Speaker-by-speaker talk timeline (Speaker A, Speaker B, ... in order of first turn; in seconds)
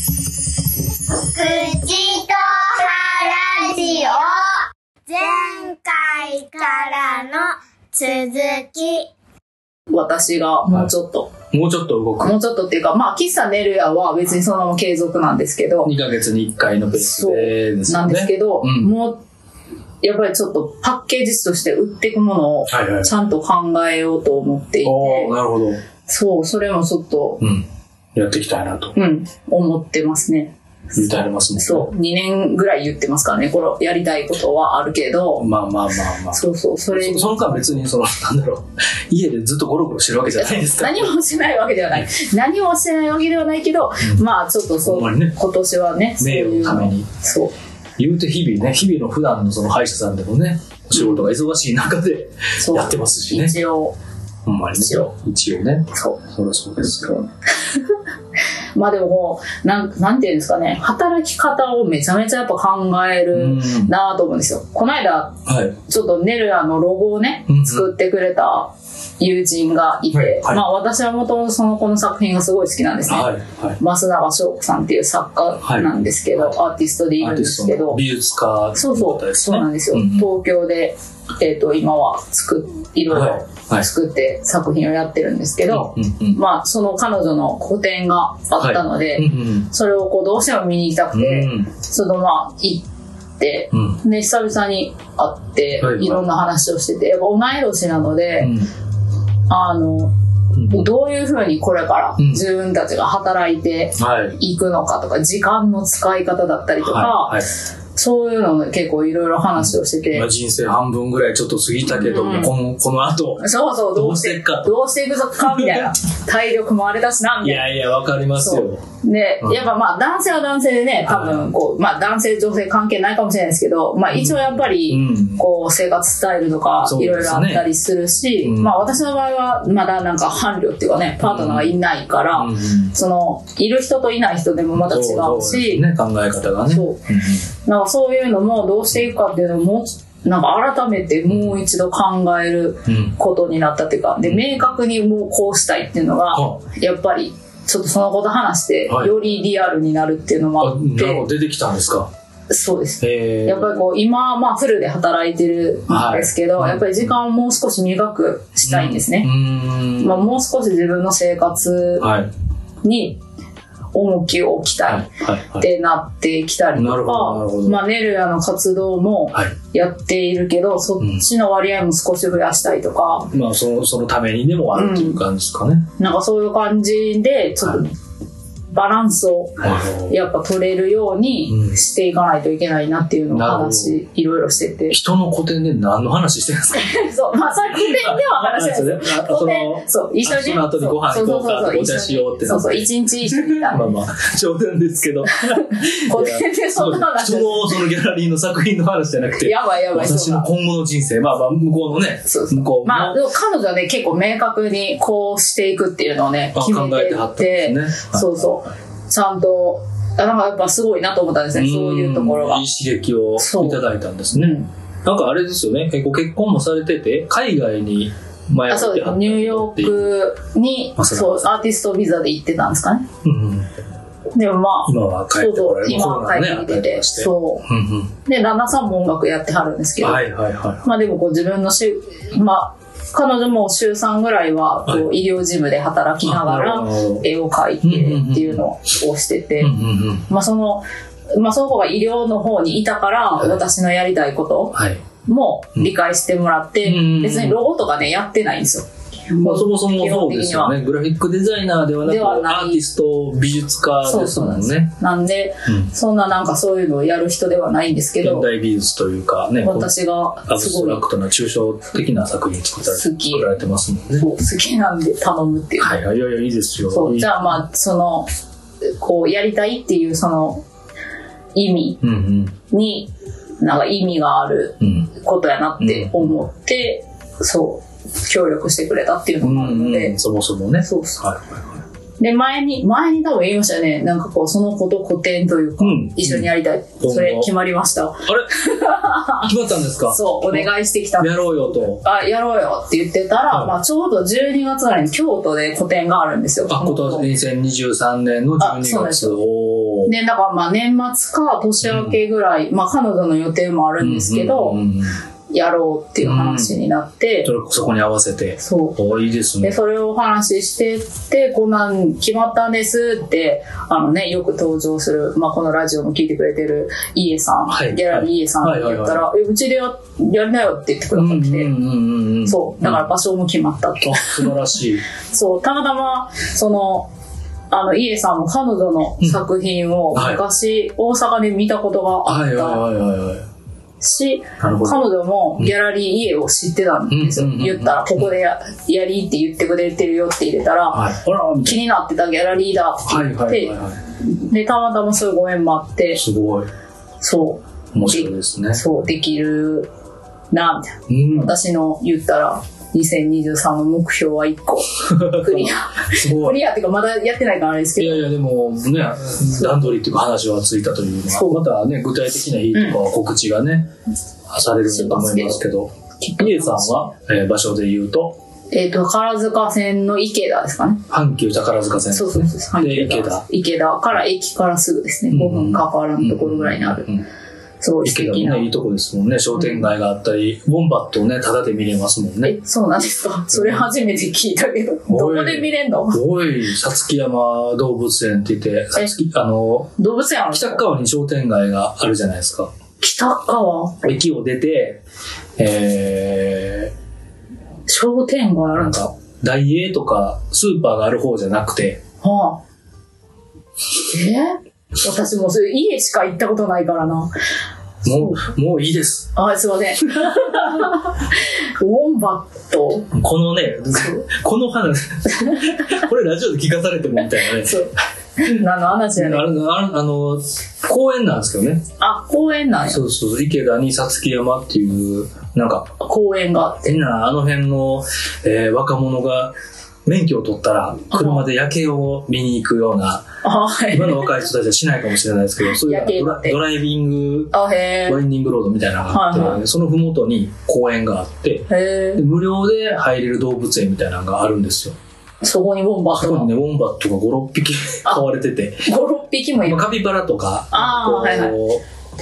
Speaker A: 1.1-9.1
Speaker B: 9.9-11.3, 12.2-15.9, 16.9-19.2, 20.0-25.4, 26.1-27.4, 29.0-35.5, 36.3-37.9, 40.4-47.5, 51.0-51.3, 52.6-54.0, 54.8-55.1, 55.9-56.3, 56.8-57.9, 58.7-78.0, 78.8-92.9, 93.4-98.5, 99.5-100.1, 100.7-110.3, 111.9-112.5, 113.4-117.7, 118.3-135.8, 136.7-137.0, 137.6-151.3, 152.5-159.3, 160.0-162.1, 162.8-163.2, 163.9-173.3, 174.7-175.2, 176.0-177.9, 178.7-185.0, 186.7-194.0, 195.6-197.8, 199.4-200.5, 202.2-212.6, 213.4-214.7, 218.7-223.1, 224.3-227.7, 228.2-230.2, 230.8-239.7, 240.3-250.8, 252.0-252.8, 254.0-258.5, 259.6-261.0, 262.9-263.5, 264.2-266.0, 266.9-268.3, 268.9-270.6, 271.6-272.0, 272.7-280.2, 280.8-281.3, 282.2-289.5, 290.1-297.3, 298.6-299.4, 300.1-304.8, 305.5-307.5, 308.6-309.0, 309.6-321.7, 322.5-324.5, 325.3-327.1, 327.7-332.9, 334.0-341.1, 341.6-346.2, 347.2-349.9, 350.5-358.2, 359.5-359.8, 361.3-361.6, 362.7-363.0, 364.9-365.6, 366.2-367.1, 368.7-371.0, 372.1-377.1, 377.8-378.7, 379.6-379.9, 382.4-386.2, 390.0-390.9, 393.0-394.1, 397.9-399.1, 402.2-402.6, 404.0-407.3, 408.1-408.4, 409.4-413.1, 415.7-416.0, 417.5-419.5, 422.0-423.1, 426.0-427.0, 431.1-431.4, 433.4-434.4, 435.6-436.6, 437.5-438.2, 439.1-439.6, 441.7-442.2, 445.4-446.5, 448.9-450.0, 450.7-451.6
Speaker C: 11.5-12.3, 15.8-18.9, 22.7-23.1, 24.8-25.8, 27.4-29.0, 30.9-31.9, 35.4-41.1, 44.8-45.4, 46.2-47.1, 48.0-53.6, 54.5-57.2, 63.3-63.9, 65.5-65.8, 67.5-67.9, 70.1-70.6, 73.1-73.8, 75.6-76.6, 77.2-80.3, 83.1-83.9, 85.7-86.4, 88.6-89.7, 91.1-91.7, 93.7-94.0, 95.8-96.2, 98.4-98.7, 100.5-100.9, 102.2-102.4, 104.0-104.4, 106.8-107.5, 109.6-114.7, 115.4-115.9, 117.4-118.8, 119.4-119.7, 121.0-121.5, 124.1-125.4, 126.8-127.7, 128.4-128.8, 131.2-131.8, 132.3-133.0, 134.7-137.5, 141.3-141.6, 142.9-143.2, 144.2-144.7, 146.3-146.6, 148.9-149.2, 150.6-152.1, 153.0-153.8, 155.9-157.1, 158.7-160.3, 162.0-162.3, 164.9-165.7, 166.8-167.8, 173.3-175.9, 179.6-180.2, 181.5-181.8, 183.3-184.0, 184.9-187.1, 187.7-203.3, 206.5-208.6, 211.5-220.1, 221.0-221.4, 223.2-223.7, 224.9-228.1, 230.0-230.9, 236.2-237.3, 237.8-238.7, 239.6-240.3, 244.7-245.0, 246.8-247.6, 249.3-254.9, 255.7-255.9, 258.2-259.9, 260.5-264.3, 265.8-267.5, 272.0-272.6, 274.8-275.1, 275.8-276.3, 279.4-281.7, 285.8-287.5, 289.3-292.0, 296.7-300.1, 301.8-302.2, 304.0-305.2, 306.2-306.8, 307.4-309.8, 317.7-319.2, 321.1-323.1, 324.0-325.0, 330.1-330.4, 332.3-333.4, 334.6-335.1, 337.1-338.3, 340.9-341.8, 343.1-344.0, 346.1-346.7, 347.9-348.8, 351.1-351.6, 355.1-356.6, 358.0-363.9, 364.5-368.4, 371.1-373.4, 375.3-377.2, 378.1-382.6, 383.5-383.9, 385.1-389.9, 390.5-392.7, 394.0-395.0, 395.6-396.9, 398.7-402.0, 408.0-409.3, 410.1-410.9, 413.1-417.9, 419.1-421.8, 422.9-425.9, 426.8-429.5, 430.1-433.3, 433.9-437.6, 438.1-445.0, 446.1-448.9, 449.6-451.8